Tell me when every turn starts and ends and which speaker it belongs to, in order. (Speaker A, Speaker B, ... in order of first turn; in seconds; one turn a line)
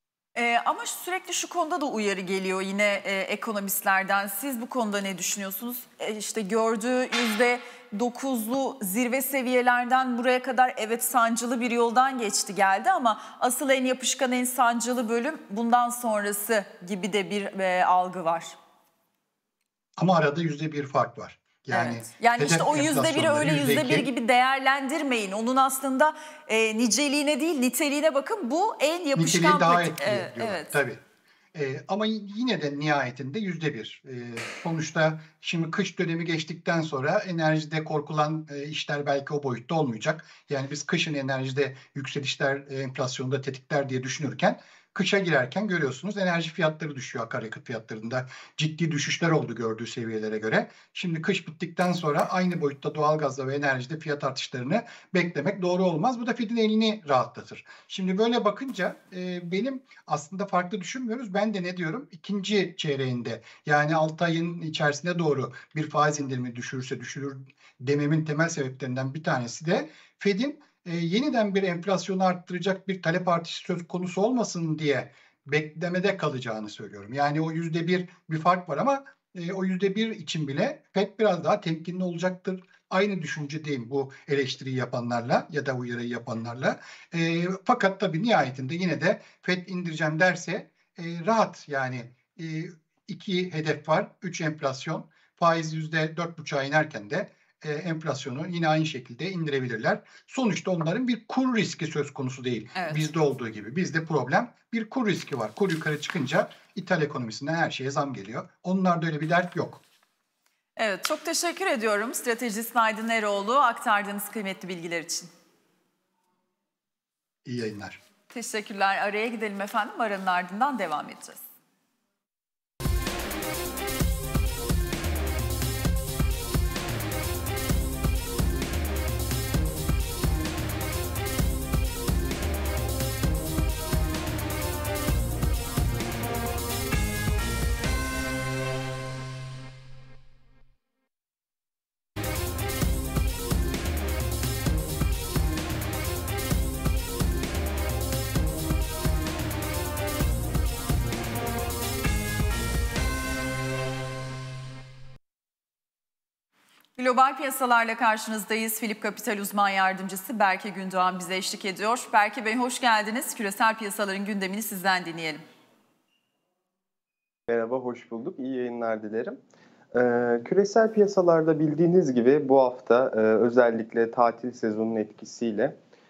Speaker A: 0.3-18.6
Speaker B: 20.0-24.1
Speaker A: 21.7-30.8
Speaker B: 29.1-31.0
Speaker B: 31.5-109.8
Speaker A: 102.8-103.0
Speaker A: 110.8-115.3
Speaker B: 117.4-118.0
Speaker A: 118.3-121.4
Speaker A: 157.0-165.4
Speaker C: 167.5-169.4
Speaker C: 169.9-175.7